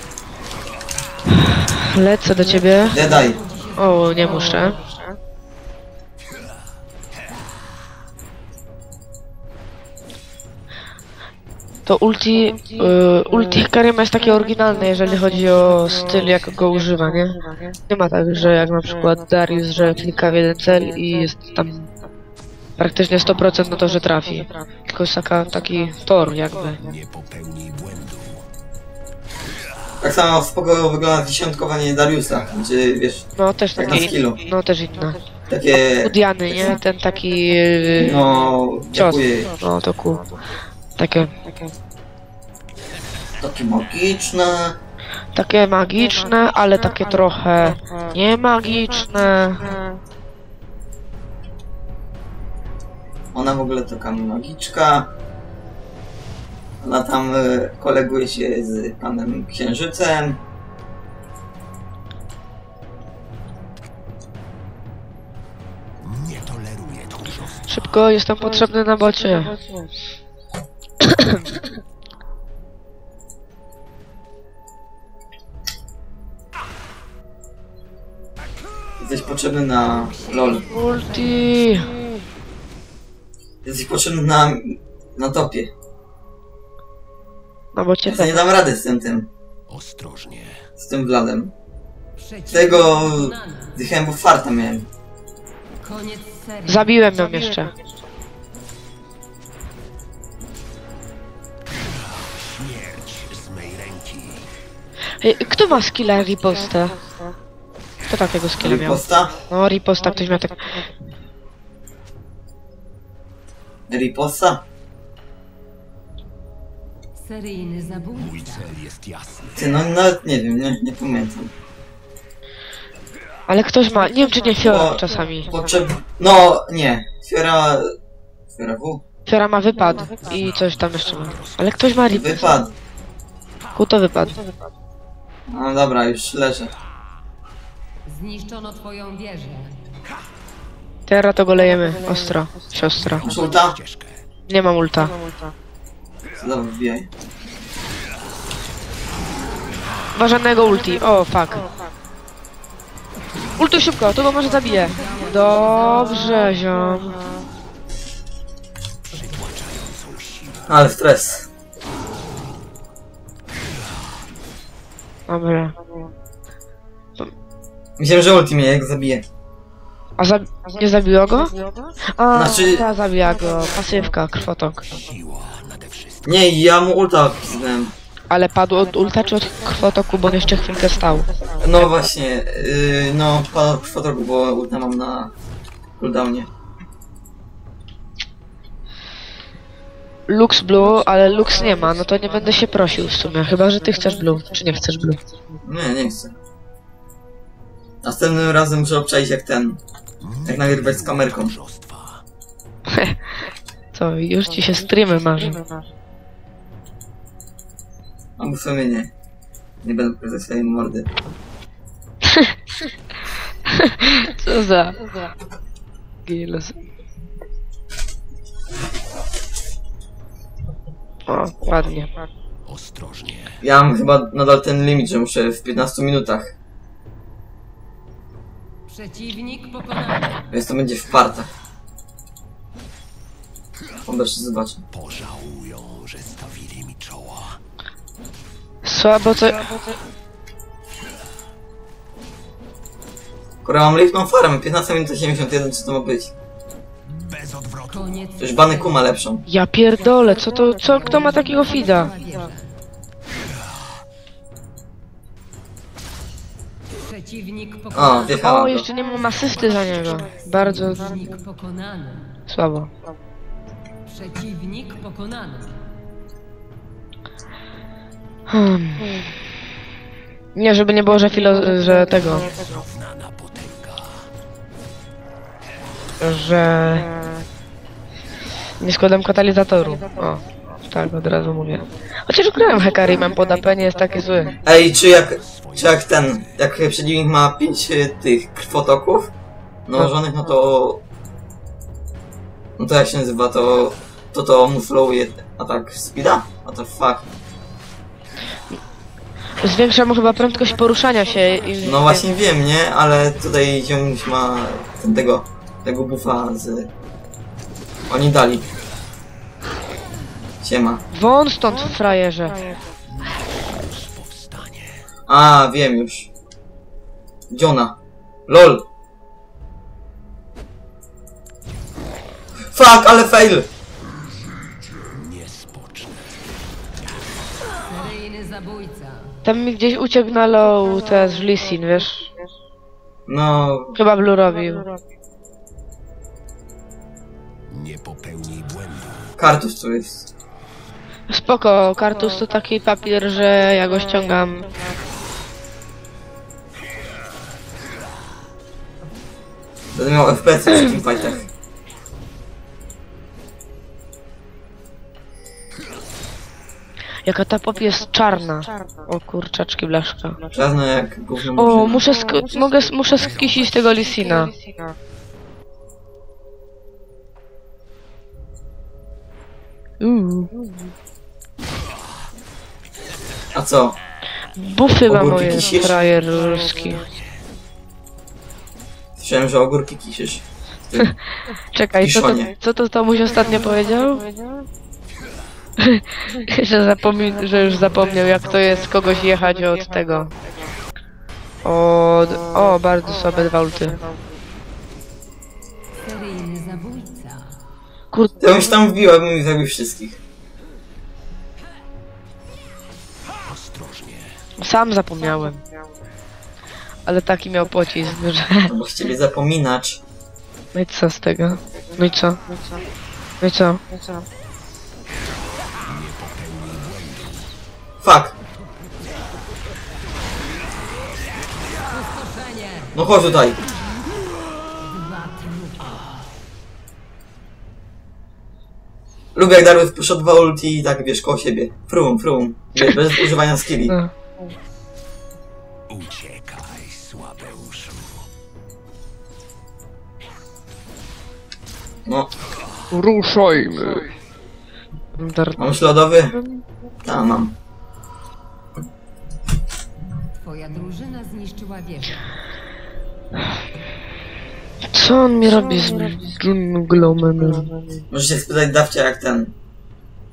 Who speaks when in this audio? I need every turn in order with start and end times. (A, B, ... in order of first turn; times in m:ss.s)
0:01.5-0:03.1 A
0:02.9-0:03.4 B
0:03.0-0:04.8 C
0:03.8-0:04.8 A
0:11.8-0:21.9 A
0:22.8-0:26.8 A
0:26.8-0:28.5 D
0:30.0-0:34.4 B
0:33.4-0:35.2 A
0:35.5-0:36.8 B
0:36.0-0:38.3 A
0:38.0-0:39.6 B
0:38.9-0:40.3 A
0:41.0-0:41.3 A
0:43.4-0:44.8 B
0:45.3-0:49.7 A
0:53.3-0:55.1 B
0:56.8-1:00.4 B
1:06.0-1:07.7 D
1:07.7-1:09.5 A
1:11.0-1:11.4 A
1:19.0-1:20.6 B
1:20.1-1:20.6 C
1:20.7-1:21.9 A
1:23.6-1:25.7 B
1:27.7-1:28.5 A
1:28.0-1:29.3 B
1:29.7-1:30.6 D
1:30.8-1:31.5 B
1:32.2-1:33.8 C
1:32.5-1:34.9 B
1:35.8-1:36.9 C
1:36.7-1:37.7 A
1:42.4-1:44.5 D
1:45.2-1:47.0 A
1:48.1-1:50.8 A
1:48.6-1:49.4 B
1:53.9-1:54.6 B
1:57.2-1:58.7 C
1:58.2-1:59.6 D
1:59.6-2:01.5 B
2:03.5-2:05.5 A
2:04.6-2:07.9 B
2:08.5-2:09.0 B
2:09.3-2:12.5 A
2:12.1-2:12.7 B
2:13.7-2:14.4 A
2:15.5-2:16.7 B
2:18.0-2:19.8 C
2:21.1-2:23.2 A
2:23.1-2:24.2 D
2:23.2-2:23.8 B
2:24.5-2:25.1 A
2:26.4-2:27.1 B
2:30.1-2:31.7 A
2:33.6-2:37.2 A
2:34.9-2:36.3 C
2:39.1-2:40.6 D
2:40.7-2:41.5 B
2:45.3-2:45.7 A
2:48.0-2:49.2 B
2:50.2-2:51.5 A
2:52.1-2:54.8 A
2:52.3-2:52.8 B
2:54.9-2:56.2 D
2:56.2-2:57.9 B
2:58.3-3:01.3 A
3:01.6-3:05.3 B
3:06.0-3:06.5 B
3:10.3-3:15.2 A
3:15.6-3:16.3 B
3:18.0-3:19.8 B
3:20.2-3:22.2 D
3:20.4-3:21.6 B
3:22.9-3:23.2 A
3:23.9-3:25.6 A
3:28.4-3:29.1 B
3:29.8-3:31.1 B
3:32.2-3:32.5 A
3:33.7-3:35.0 A
3:36.2-3:36.8 A
3:41.3-3:42.1 A
3:42.6-3:43.6 D
3:43.6-3:46.5 B
3:48.9-3:50.5 C
3:50.5-3:51.5 B
3:54.1-3:54.8 B
3:54.9-3:57.6 D
3:58.8-3:59.7 A
4:03.6-4:06.3 B
4:07.1-4:08.1 D
4:07.9-4:08.5 C
4:08.4-4:09.4 B
4:09.5-4:12.1 A
4:11.4-4:12.7 C
4:17.0-4:18.3 C
4:17.9-4:18.9 B
4:18.3-4:21.2 A
4:19.7-4:20.1 D
4:20.6-4:22.3 C
4:22.5-4:22.9 A
4:24.1-4:25.8 C
4:28.5-4:29.1 A
4:30.5-4:32.5 A
4:32.6-4:34.3 D
4:36.2-4:37.1 A
4:38.8-4:44.5 A
4:44.6-4:49.3 B
4:44.9-4:45.9 D
4:49.9-4:51.0 B
4:52.8-4:57.3 B
4:59.6-5:02.2 A
5:01.8-5:06.9 B
5:08.1-5:08.7 B
5:10.6-5:11.0 B
5:11.1-5:12.6 A
5:13.2-5:15.0 D
5:15.3-5:16.3 B
5:17.5-5:18.0 B
5:18.5-5:18.8 B
5:22.7-5:23.7 B
5:24.8-5:26.3 D
5:27.8-5:29.3 C
5:29.4-5:32.3 A
5:33.3-5:34.0 B
5:34.0-5:34.9 A
5:37.7-5:39.3 D
5:39.4-5:40.3 B
5:41.3-5:44.7 A
5:49.9-5:51.5 B
5:57.2-6:00.4 A
6:00.5-6:02.1 B
6:01.6-6:04.5 A
6:10.0-6:10.5 A
6:13.5-6:14.0 B
6:14.6-6:17.1 A
6:15.1-6:16.0 B
6:19.2-6:21.1 B
6:21.7-6:24.2 A
6:21.9-6:22.5 B
6:25.8-6:30.3 A
6:31.6-6:34.0 A
6:36.0-6:37.5 C
6:38.1-6:38.6 A
6:38.4-6:40.2 B
6:43.4-6:44.3 D
6:44.6-6:45.6 A
6:47.0-6:48.7 A
6:48.7-6:50.0 B
6:50.7-6:52.4 A
6:53.4-6:53.8 A
6:55.8-6:57.5 D
6:58.0-6:58.4 B
7:02.1-7:02.9 C
7:02.9-7:03.6 B
7:04.8-7:06.0 C
7:09.3-7:14.0 B
7:15.9-7:18.2 D
7:22.0-7:22.3 B
7:22.9-7:24.1 A
7:25.2-7:25.6 A
7:25.6-7:26.4 B
7:26.4-7:26.6 A
7:27.0-7:27.5 B
7:30.3-7:32.2 C
7:34.9-7:37.7 A
7:38.1-7:39.5 B